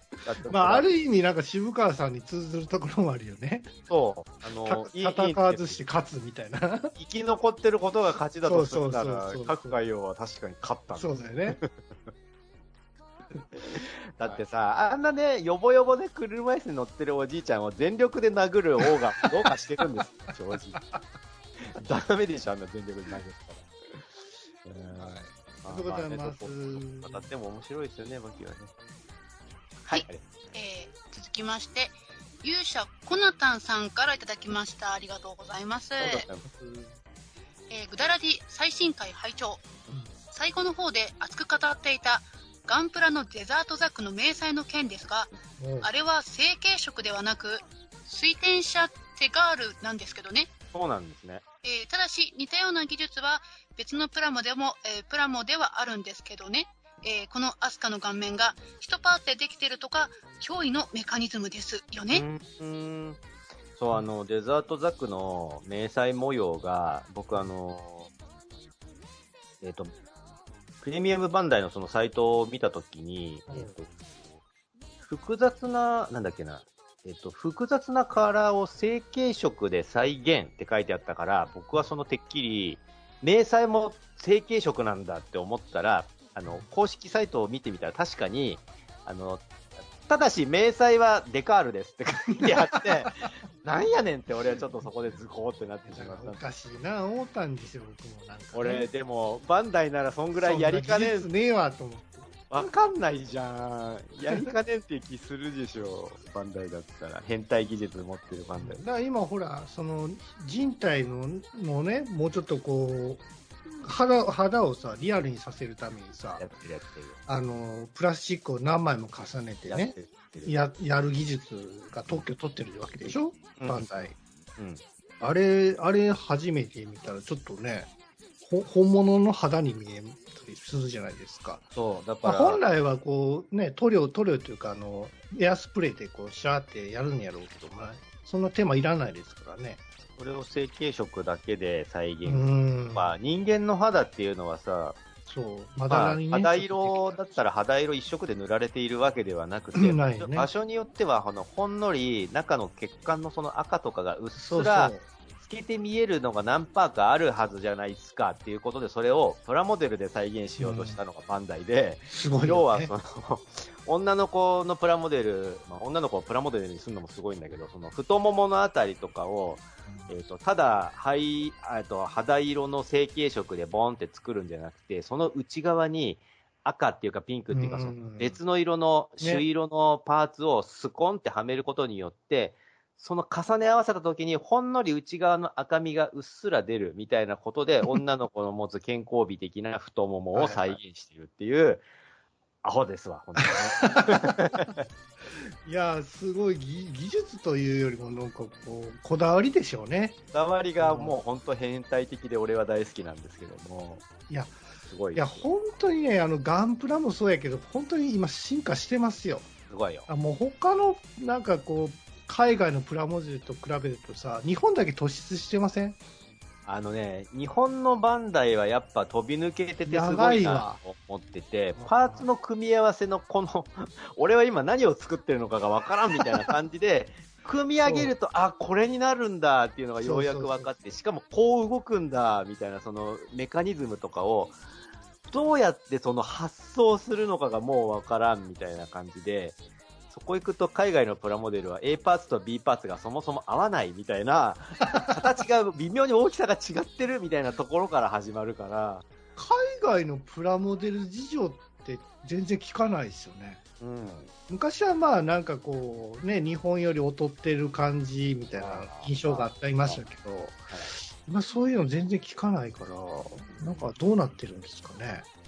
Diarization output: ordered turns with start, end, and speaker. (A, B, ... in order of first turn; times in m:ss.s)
0:00.2-0:00.9 A
0:00.5-0:03.7 B
0:03.9-0:05.8 A
0:04.6-0:06.9 B
0:07.0-0:11.9 A
0:08.4-0:09.8 B
0:10.9-0:11.6 B
0:13.6-0:20.8 A
0:21.6-0:24.0 A
0:24.6-0:28.7 A
0:24.9-0:27.3 B
0:29.8-0:30.5 A
0:29.9-0:36.2 C
0:36.0-0:36.5 A
0:36.5-0:36.9 B
0:37.7-0:39.6 C
0:40.3-0:45.3 C
0:45.6-0:45.9 B
0:45.8-0:50.5 C
0:50.7-0:51.4 A
0:51.6-1:02.2 C
1:02.1-1:03.2 A
1:03.8-1:08.1 A
1:09.6-1:09.9 A
1:10.8-1:14.2 A
1:13.5-1:13.7 B
1:15.0-1:36.4 A
1:32.4-1:33.1 B
1:35.9-1:38.9 B
1:38.5-1:41.3 A
1:40.4-1:42.4 B
1:42.5-1:48.8 A
1:48.6-1:53.2 B
1:53.8-1:56.5 B
1:56.4-1:57.2 A
1:57.3-1:59.9 B
1:59.7-2:00.6 A
2:00.4-2:04.1 B
2:03.6-2:04.8 A
2:05.2-2:07.9 B
2:08.4-2:11.7 B
2:11.7-2:12.6 A
2:12.2-2:19.8 B
2:20.2-2:25.0 A
2:22.2-2:23.1 B
2:25.2-2:27.4 B
2:25.9-3:11.8 A
2:29.7-2:30.5 B
2:34.4-2:35.0 B
2:40.6-2:41.0 B
2:42.1-2:42.9 B
2:57.5-2:58.4 B
3:10.3-3:10.8 B
3:12.6-3:14.8 A
3:13.6-3:14.7 B
3:15.3-3:20.2 B
3:20.3-3:24.0 A
3:20.8-3:21.2 B
3:24.3-3:24.6 B
3:24.8-3:25.5 A
3:25.1-3:29.5 B
3:29.7-3:30.1 A
3:30.1-3:36.0 B
3:36.6-3:54.5 A
3:39.9-3:40.8 B
3:41.8-3:42.2 B
3:47.8-3:48.1 B
3:50.0-3:50.7 B
3:55.3-3:59.6 A
4:00.1-4:09.0 A
4:04.9-4:05.2 B
4:09.4-4:13.6 B
4:13.8-4:14.3 A
4:14.5-4:25.2 B
4:18.5-4:20.0 A
4:23.5-4:23.9 A